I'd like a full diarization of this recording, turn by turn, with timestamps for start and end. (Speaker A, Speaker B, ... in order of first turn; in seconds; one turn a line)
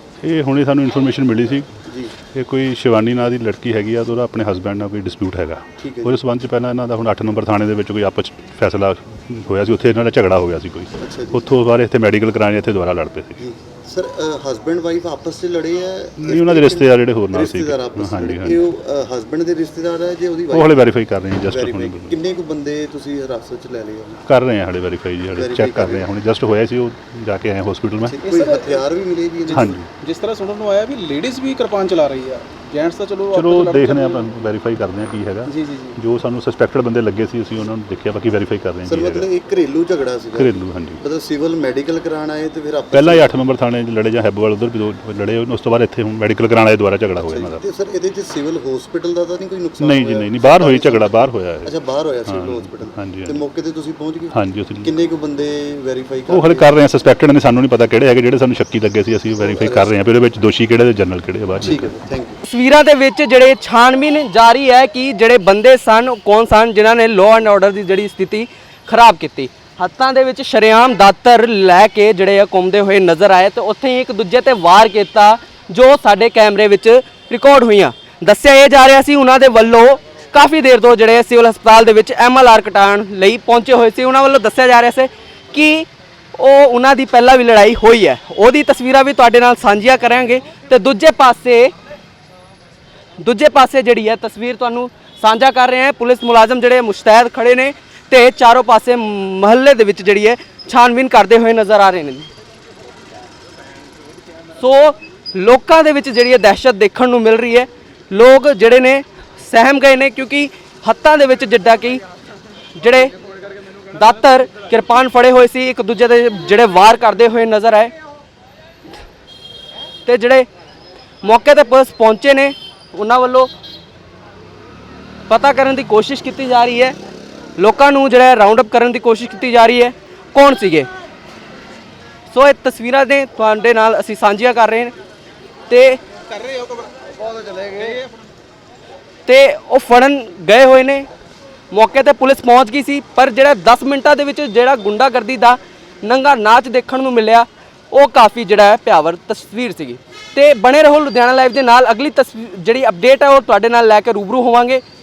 Speaker A: 0.2-1.7
Speaker A: 2.4-13.4
Speaker B: 5.8-6.2
Speaker B: 11.0-11.5
Speaker B: 13.4-20.9
Speaker A: 16.2-18.6
Speaker A: 20.5-22.2
Speaker B: 21.4-24.2
Speaker A: 24.3-28.2
Speaker B: 25.3-26.1
Speaker B: 28.1-29.8
Speaker C: 28.2-28.9
Speaker C: 29.5-34.2
Speaker A: 29.5-29.9
Speaker A: 33.3-39.3
Speaker B: 35.5-35.9
Speaker B: 38.9-43.4
Speaker A: 40.4-41.0
Speaker A: 42.9-47.6
Speaker B: 47.2-56.8
Speaker A: 49.8-53.4
Speaker A: 54.3-55.0
Speaker A: 56.3-62.0
Speaker B: 59.3-59.9
Speaker B: 61.6-62.4
Speaker D: 62.4-91.7
Speaker D: 93.2-102.3
Speaker D: 104.6-112.0
Speaker D: 112.8-113.1
Speaker D: 113.9-117.9
Speaker D: 120.1-120.5
Speaker D: 121.2-123.5
Speaker D: 125.3-127.0
Speaker D: 127.6-130.9
Speaker D: 132.3-134.9
Speaker D: 135.7-136.0
Speaker D: 139.3-141.1
Speaker D: 141.7-154.8